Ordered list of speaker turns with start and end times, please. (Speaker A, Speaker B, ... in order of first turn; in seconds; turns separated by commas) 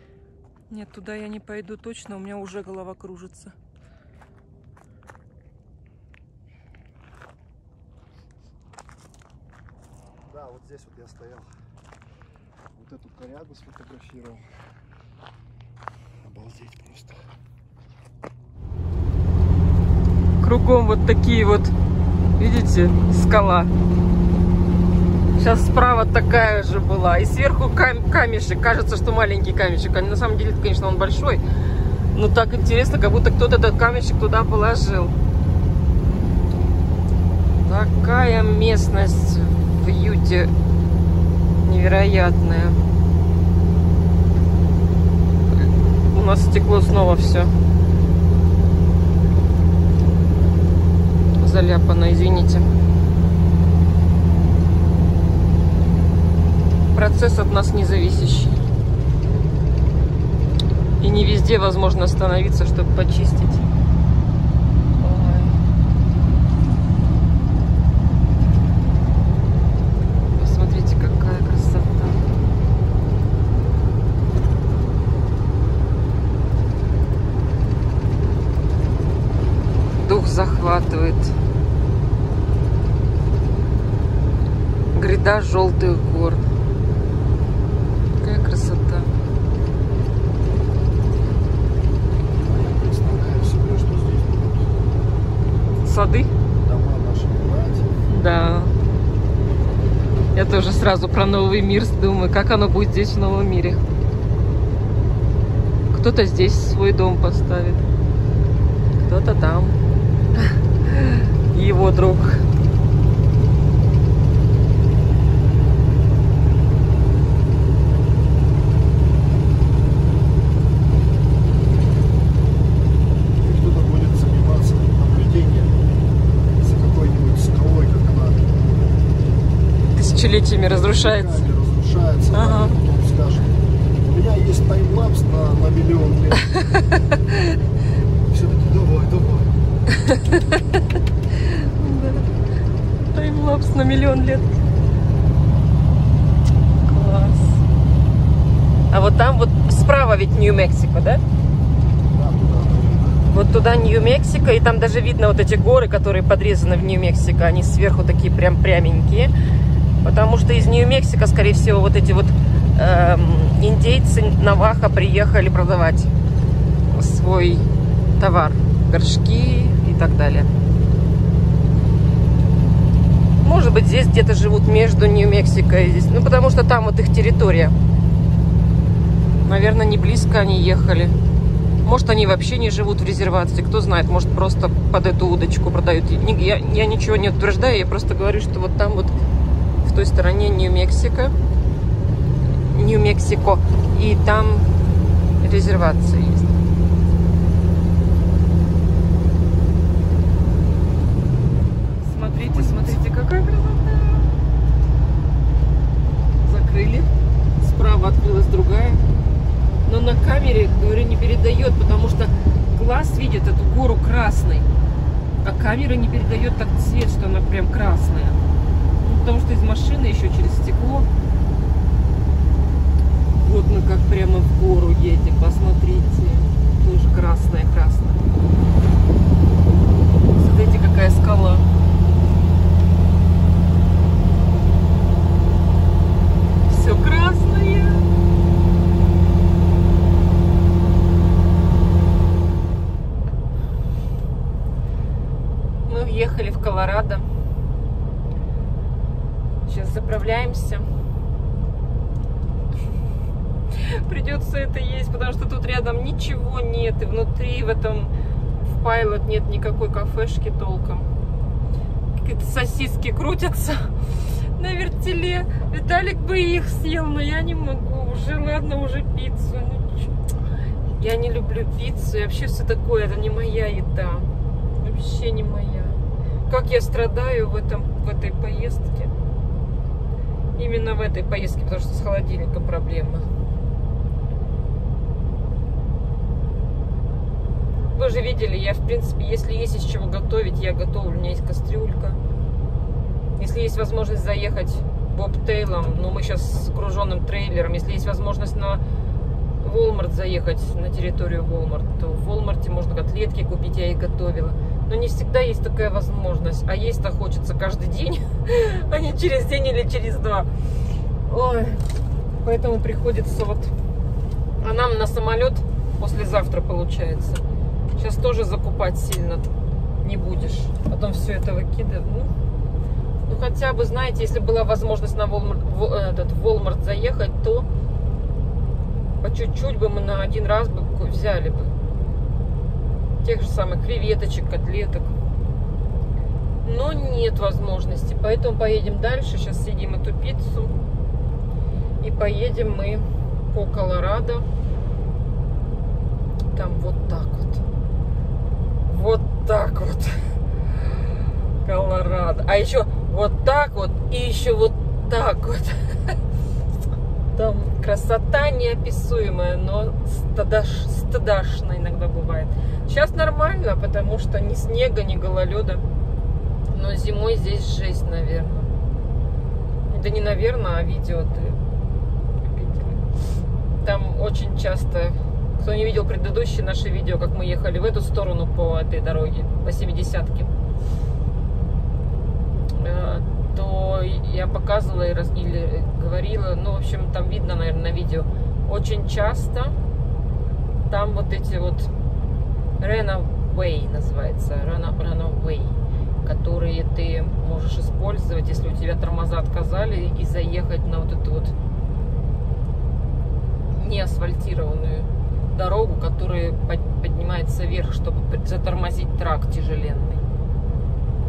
Speaker A: 0.7-3.5, Speaker B: 10.3-11.5, Speaker B: 12.7-14.5, Speaker B: 16.2-17.2, Speaker A: 20.4-21.7, Speaker A: 22.4-23.7, Speaker A: 25.4-31.4, Speaker A: 32.1-35.1, Speaker A: 37.6-40.5, Speaker A: 41.6-42.8, Speaker A: 45.6-47.5, Speaker A: 51.4-52.7, Speaker A: 56.9-58.6, Speaker A: 61.0-63.6, Speaker A: 65.0-65.6, Speaker A: 70.3-72.2, Speaker A: 80.0-81.3, Speaker A: 84.9-86.4, Speaker A: 88.2-89.1, Speaker B: 92.3-94.7, Speaker A: 95.8-96.3, Speaker B: 96.5-98.1, Speaker A: 98.1-98.7, Speaker A: 100.3-103.8, Speaker A: 105.9-107.8, Speaker A: 109.0-109.8, Speaker A: 110.4-112.4, Speaker B: 123.4-125.7, Speaker B: 126.6-128.5, Speaker A: 129.9-131.5, Speaker B: 130.6-136.5, Speaker A: 132.3-132.7, Speaker A: 136.5-137.5, Speaker B: 138.3-139.6, Speaker A: 139.9-140.8, Speaker A: 141.4-142.3, Speaker A: 143.1-144.6, Speaker A: 146.8-147.6, Speaker A: 148.9-151.2, Speaker B: 152.1-153.2, Speaker A: 153.3-159.3, Speaker A: 160.0-166.1, Speaker A: 166.9-167.7, Speaker A: 168.2-170.5, Speaker A: 173.4-177.7, Speaker A: 179.4-181.1, Speaker A: 181.8-189.2, Speaker A: 189.8-191.3, Speaker A: 192.7-194.7, Speaker A: 195.4-196.5, Speaker A: 202.0-204.3, Speaker B: 202.3-203.1, Speaker A: 206.4-207.1, Speaker A: 207.6-209.0, Speaker A: 209.8-214.7, Speaker A: 215.4-218.4, Speaker A: 219.0-221.1, Speaker A: 223.4-228.2, Speaker A: 230.3-231.7, Speaker A: 236.7-238.1, Speaker A: 245.8-247.2, Speaker A: 249.7-250.9, Speaker A: 253.7-258.1, Speaker A: 258.6-261.1, Speaker A: 262.1-263.9, Speaker A: 264.6-270.1, Speaker A: 270.9-279.1, Speaker A: 280.6-283.3, Speaker A: 287.9-292.2, Speaker A: 293.4-298.8, Speaker A: 299.6-310.5, Speaker A: 311.2-311.8, Speaker A: 312.4-313.7, Speaker A: 314.6-317.4, Speaker A: 317.9-319.5, Speaker A: 320.0-322.3, Speaker A: 323.3-327.7, Speaker A: 329.2-331.7, Speaker A: 333.2-335.1, Speaker A: 336.6-340.7, Speaker A: 342.0-344.4, Speaker A: 346.5-347.6, Speaker A: 348.9-350.1, Speaker A: 350.8-351.1, Speaker A: 351.6-356.1, Speaker A: 357.3-365.8, Speaker A: 366.7-368.7, Speaker A: 369.9-371.6, Speaker A: 372.4-373.0, Speaker A: 373.8-380.5, Speaker A: 382.7-389.7, Speaker A: 390.9-391.9, Speaker A: 392.8-401.5, Speaker A: 403.7-410.2